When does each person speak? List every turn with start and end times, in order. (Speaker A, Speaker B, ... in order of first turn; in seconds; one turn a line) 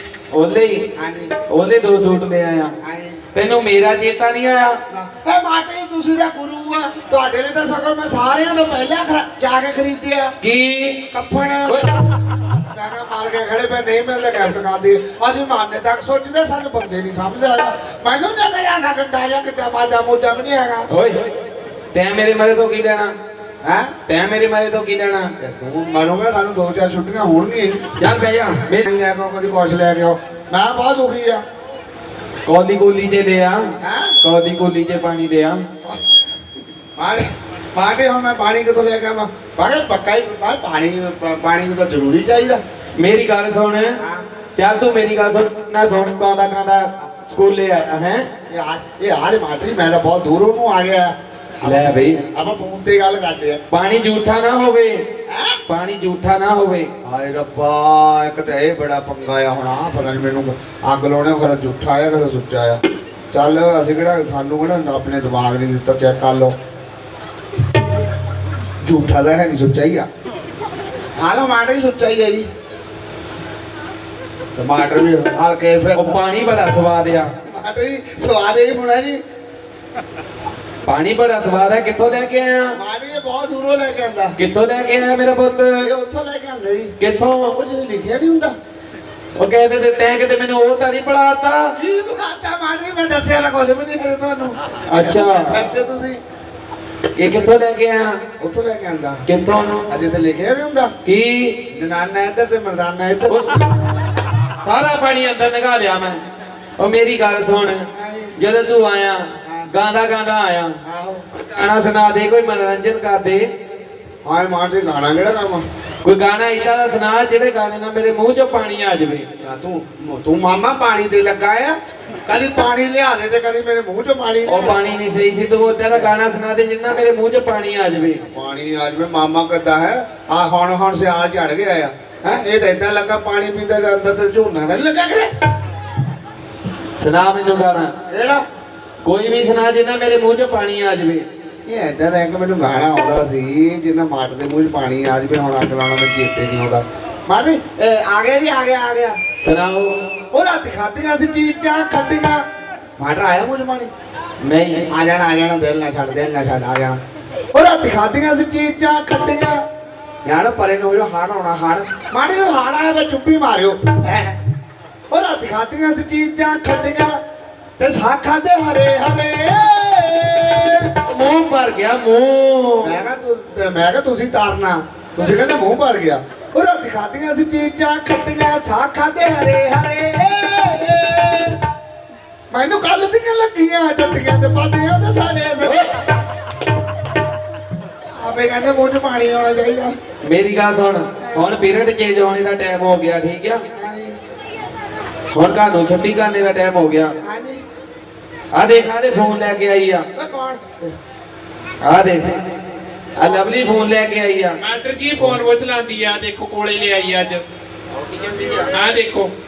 Speaker A: 0.3-0.9
Speaker B: 0.9-1.3
Speaker A: 1.5-2.8
Speaker B: 2.8-3.2
Speaker A: 3.3-4.8
Speaker B: 4.9-10.3
Speaker A: 10.4-11.1
Speaker B: 11.1-11.8
Speaker A: 11.7-11.9
Speaker B: 12.7-20.9
Speaker A: 20.9-21.2
Speaker A: 21.9-23.1
Speaker B: 23.6-23.9
Speaker A: 24.1-25.3
Speaker B: 25.4-27.9
Speaker A: 28.0-28.9
Speaker B: 28.8-31.4
Speaker A: 32.5-33.7
Speaker B: 33.8-34.2
Speaker A: 34.2-35.6
Speaker B: 37.0-42.6
Speaker A: 43.0-44.0
Speaker B: 44.0-44.2
Speaker A: 44.6-48.3
Speaker B: 48.5-53.6
Speaker A: 51.6-52.2
Speaker A: 53.7-55.0
Speaker B: 55.3-55.6
Speaker A: 55.7-56.9
Speaker B: 57.0-62.8
Speaker B: 63.3-66.5
Speaker B: 68.8-70.1
Speaker B: 71.2-72.5
Speaker B: 74.6-76.2
Speaker A: 76.0-77.3
Speaker B: 77.5-79.2
Speaker A: 80.9-82.8
Speaker B: 82.7-84.3
Speaker A: 84.4-85.9
Speaker B: 85.8-87.0
Speaker A: 87.0-87.6
Speaker B: 87.5-88.5
Speaker A: 89.4-91.7
Speaker B: 91.8-96.2
Speaker A: 94.9-95.7
Speaker A: 97.2-98.2
Speaker B: 98.4-99.2
Speaker A: 99.3-100.0
Speaker B: 99.9-100.9
Speaker A: 101.0-101.6
Speaker B: 101.7-103.5
Speaker A: 103.3-103.6
Speaker A: 104.6-106.2
Speaker A: 106.8-110.8
Speaker B: 107.9-108.4
Speaker B: 109.4-109.7
Speaker B: 110.8-111.3
Speaker A: 111.5-113.5
Speaker B: 114.2-115.6
Speaker A: 116.0-119.3
Speaker B: 119.4-124.8
Speaker A: 124.5-128.2
Speaker B: 128.2-135.3
Speaker A: 137.0-137.9
Speaker B: 138.1-138.4
Speaker A: 139.0-141.2
Speaker B: 141.7-149.2
Speaker A: 149.4-150.0
Speaker B: 150.3-152.4
Speaker B: 153.0-153.9
Speaker A: 154.4-154.9
Speaker B: 154.9-157.0
Speaker B: 157.5-159.6
Speaker B: 160.2-164.4
Speaker B: 165.1-167.2
Speaker B: 167.8-170.9
Speaker A: 171.0-173.0
Speaker B: 172.8-181.6
Speaker B: 182.5-185.9
Speaker B: 188.2-189.9
Speaker A: 190.2-193.6
Speaker B: 191.2-191.5
Speaker B: 193.7-194.2
Speaker A: 195.3-197.1
Speaker B: 197.2-197.6
Speaker A: 198.6-200.1
Speaker B: 200.2-200.9
Speaker A: 201.8-202.4
Speaker A: 203.2-204.6
Speaker C: 204.6-207.4
Speaker A: 208.3-208.6
Speaker C: 208.5-209.3